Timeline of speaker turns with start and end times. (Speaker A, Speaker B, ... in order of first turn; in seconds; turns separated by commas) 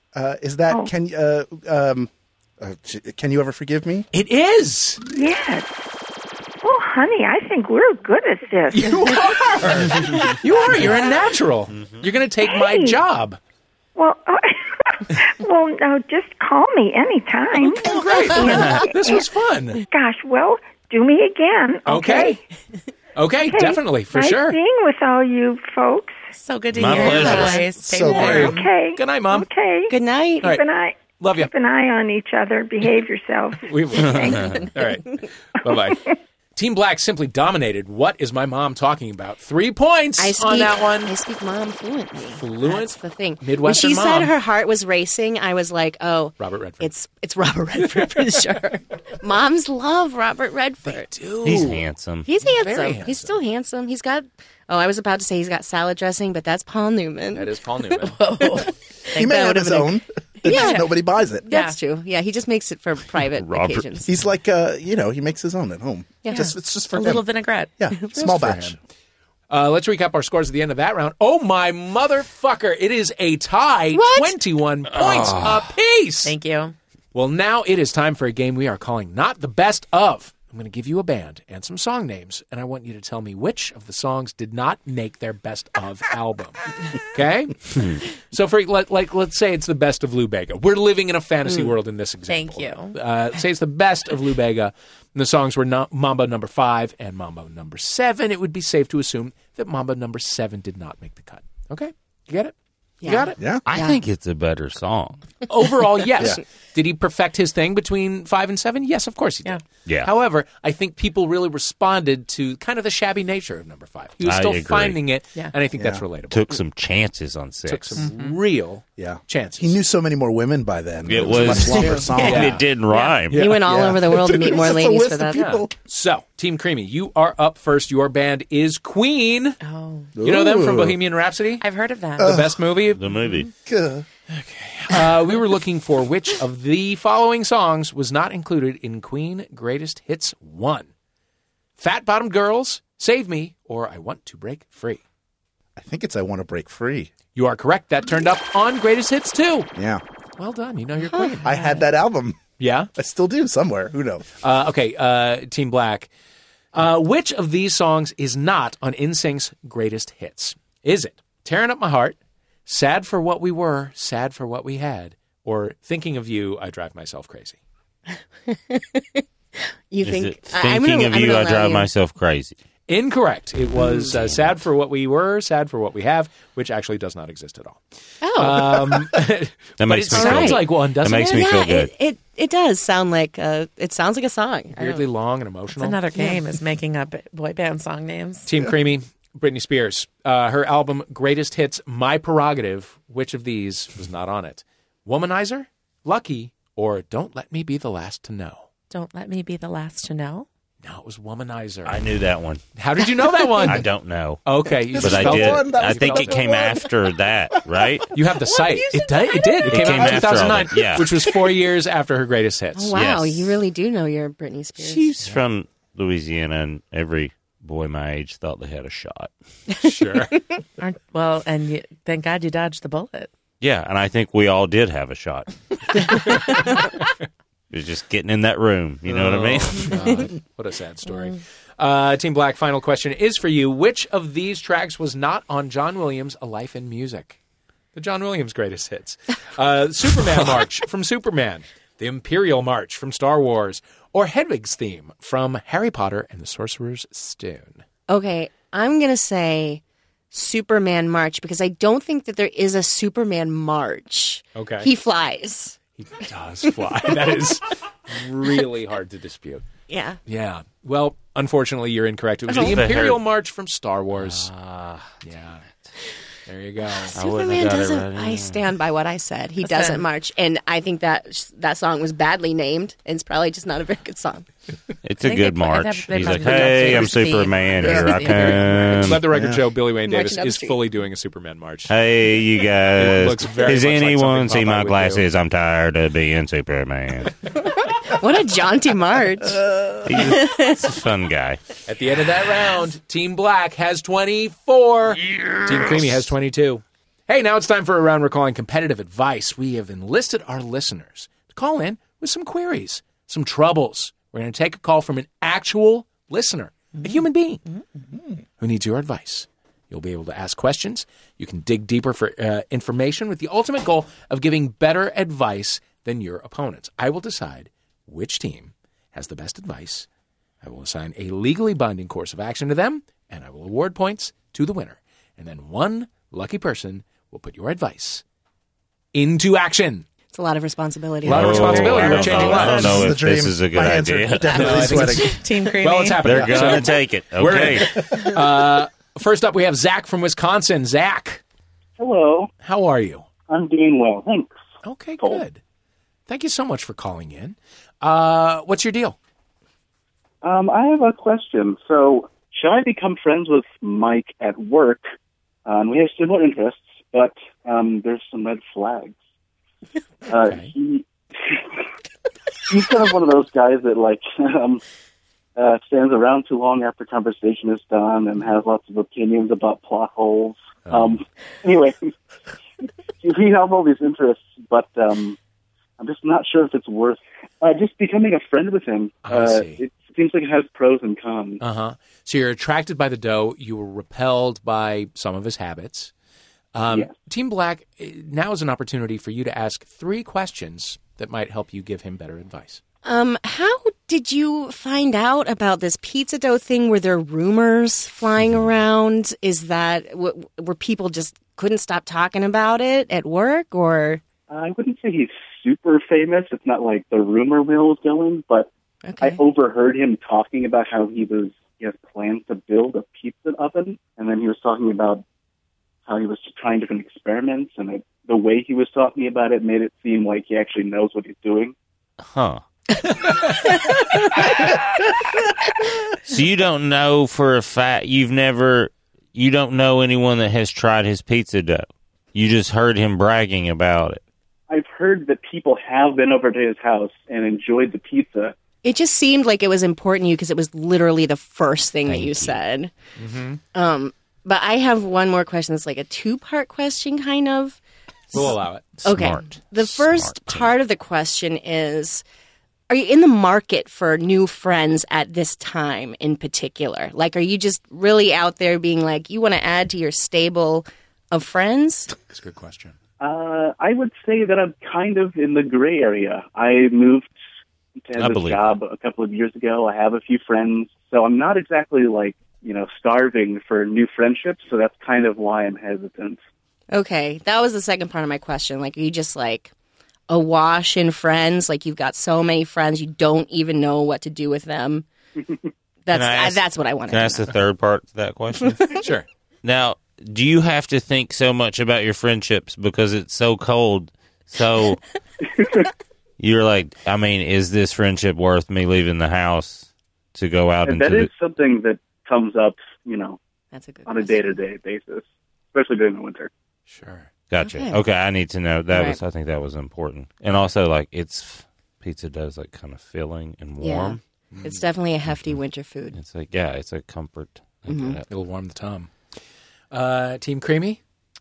Speaker A: 0.1-4.1, Speaker B: 4.1-5.0, Speaker C: 5.1-5.8, Speaker C: 6.6-9.3, Speaker B: 8.7-13.4, Speaker C: 12.4-13.0, Speaker C: 13.9-19.2, Speaker B: 17.6-19.8, Speaker D: 18.4-18.8, Speaker C: 19.9-22.4, Speaker B: 21.9-22.4, Speaker B: 23.1-24.6, Speaker C: 23.4-26.3, Speaker E: 26.3-28.7, Speaker D: 26.7-27.6, Speaker A: 27.0-28.5, Speaker B: 27.0-27.5, Speaker F: 27.2-27.5, Speaker B: 28.1-29.5, Speaker C: 28.1-34.6, Speaker F: 29.9-30.5, Speaker B: 31.2-31.5, Speaker B: 33.6-41.1, Speaker D: 34.0-34.7, Speaker C: 35.7-36.0, Speaker F: 40.2-51.1, Speaker B: 42.3-44.3, Speaker B: 46.4-46.9, Speaker B: 48.0-48.2, Speaker B: 50.8-51.8, Speaker D: 51.4-52.3, Speaker F: 52.2-58.6, Speaker B: 52.4-53.4, Speaker B: 57.3-58.2, Speaker E: 58.0-59.6, Speaker A: 59.1-61.5, Speaker F: 59.2-59.9, Speaker F: 60.4-60.8, Speaker E: 60.4-60.9, Speaker F: 61.5-64.1, Speaker E: 61.5-61.8, Speaker D: 63.3-63.9, Speaker A: 64.0-67.2, Speaker E: 66.3-67.7, Speaker A: 67.8-68.8, Speaker B: 68.1-68.8, Speaker B: 69.5-76.3, Speaker F: 73.9-74.4, Speaker D: 75.0-75.6, Speaker E: 76.2-76.7, Speaker B: 77.1-103.4, Speaker E: 92.3-93.0, Speaker F: 103.0-104.0, Speaker A: 103.4-103.6, Speaker D: 103.6-105.2, Speaker B: 105.5-116.5, Speaker D: 114.2-115.0, Speaker D: 116.3-118.1, Speaker B: 117.6-119.8, Speaker A: 119.0-122.6, Speaker D: 121.1-123.5, Speaker B: 121.7-122.7, Speaker B: 123.3-124.0, Speaker F: 123.4-125.5, Speaker A: 123.5-125.7, Speaker B: 125.3-129.6, Speaker E: 129.6-130.1, Speaker A: 130.2-131.0, Speaker B: 130.2-131.6, Speaker E: 131.6-132.4, Speaker A: 132.2-132.6, Speaker B: 132.2-133.0, Speaker D: 132.9-133.5, Speaker A: 133.6-134.1, Speaker B: 134.3-140.9, Speaker B: 141.8-145.0, Speaker A: 145.8-147.1, Speaker B: 147.3-149.7, Speaker A: 149.8-150.0, Speaker B: 150.4-151.5, Speaker F: 151.0-151.5, Speaker A: 151.4-152.4, Speaker B: 152.6-152.9, Speaker A: 152.9-154.2, Speaker B: 154.4-156.1, Speaker B: 156.7-167.6, Speaker F: 168.1-169.2, Speaker F: 169.9-171.9, Speaker D: 170.0-172.6, Speaker B: 172.9-177.8, Speaker D: 174.0-174.4, Speaker F: 178.2-178.9, Speaker B: 178.3-181.5, Speaker D: 179.8-181.9, Speaker F: 180.1-185.0, Speaker B: 184.8-186.0, Speaker E: 185.8-188.5, Speaker B: 188.4-198.7, Speaker E: 198.9-200.5, Speaker B: 200.8-202.0, Speaker D: 201.8-202.6, Speaker B: 202.8-203.9, Speaker D: 203.6-204.4, Speaker B: 204.4-206.4, Speaker A: 204.9-206.9, Speaker D: 205.0-208.1, Speaker B: 208.1-212.9, Speaker E: 208.5-209.8, Speaker D: 209.7-211.1, Speaker F: 212.8-215.1, Speaker D: 212.9-213.6, Speaker D: 214.8-219.3, Speaker B: 219.8-220.3, Speaker E: 220.8-223.3, Speaker D: 223.6-226.8, Speaker B: 226.0-227.1, Speaker D: 227.7-230.2, Speaker B: 229.1-237.4, Speaker B: 237.9-247.8, Speaker F: 248.1-255.8, Speaker B: 254.5-254.9, Speaker B: 256.0-259.6, Speaker F: 259.9-260.2, Speaker B: 260.2-264.5, Speaker D: 262.5-263.2, Speaker F: 262.5-262.8, Speaker D: 264.1-265.2, Speaker B: 265.2-265.6, Speaker B: 266.4-267.1, Speaker F: 267.1-274.5, Speaker D: 267.1-268.6, Speaker E: 269.6-270.0, Speaker D: 275.0-279.3, Speaker E: 275.2-279.0, Speaker F: 277.9-278.1, Speaker B: 278.4-281.9, Speaker A: 279.3-279.6, Speaker F: 280.0-280.8, Speaker D: 281.9-287.4, Speaker B: 282.9-285.2, Speaker F: 288.0-290.9, Speaker D: 290.0-291.6, Speaker B: 291.9-307.6, Speaker B: 308.6-320.1, Speaker B: 320.6-328.2, Speaker B: 329.1-330.1, Speaker F: 330.3-332.5, Speaker B: 331.2-333.1, Speaker D: 331.2-335.1, Speaker A: 332.4-335.4, Speaker B: 334.5-341.4, Speaker E: 335.1-336.2, Speaker D: 336.2-338.3, Speaker G: 342.0-342.5, Speaker B: 342.6-343.3, Speaker G: 343.5-344.5, Speaker B: 344.8-345.6, Speaker B: 346.3-349.1, Speaker G: 350.4-355.0, Speaker G: 355.6-359.1, Speaker G: 360.3-361.6, Speaker B: 360.4-360.7, Speaker G: 362.7-364.8, Speaker G: 365.6-372.1, Speaker B: 370.9-371.2, Speaker G: 373.2-375.4, Speaker G: 376.0-381.6, Speaker B: 379.2-379.8, Speaker B: 381.6-386.1, Speaker B: 386.7-392.8, Speaker F: 393.0-404.2, Speaker G: 404.5-408.7, Speaker F: 409.0-409.4, Speaker G: 409.2-415.2, Speaker G: 416.1-421.7, Speaker D: 422.2-422.6, Speaker B: 423.1-423.7, Speaker B: 424.4-424.6, Speaker D: 426.2-434.2, Speaker G: 434.7-438.5, Speaker F: 438.8-442.9, Speaker D: 442.1-442.6, Speaker B: 443.2-443.6, Speaker F: 443.7-447.8, Speaker B: 448.3-449.0, Speaker D: 449.0-450.7, Speaker F: 449.0-452.2, Speaker F: 452.9-462.1, Speaker B: 462.3-463.0, Speaker G: 463.2-467.3, Speaker G: 468.0-476.4, Speaker D: 468.1-468.7, Speaker F: 476.9-479.7, Speaker F: 480.3-485.1, Speaker F: 486.1-487.5, Speaker D: 486.1-489.0, Speaker F: 488.6-488.9, Speaker B: 488.9-489.2, Speaker D: 489.6-495.0, Speaker G: 495.6-495.9, Speaker D: 496.4-501.3, Speaker G: 500.8-503.4, Speaker F: 503.7-504.5, Speaker G: 504.1-506.5, Speaker B: 506.9-507.3, Speaker D: 507.5-514.2, Speaker F: 507.6-508.0, Speaker F: 508.9-509.2, Speaker F: 513.8-516.2, Speaker B: 514.5-514.8, Speaker D: 515.3-515.6, Speaker D: 516.1-518.2, Speaker F: 517.9-518.2, Speaker B: 518.3-519.1, Speaker B: 519.9-521.0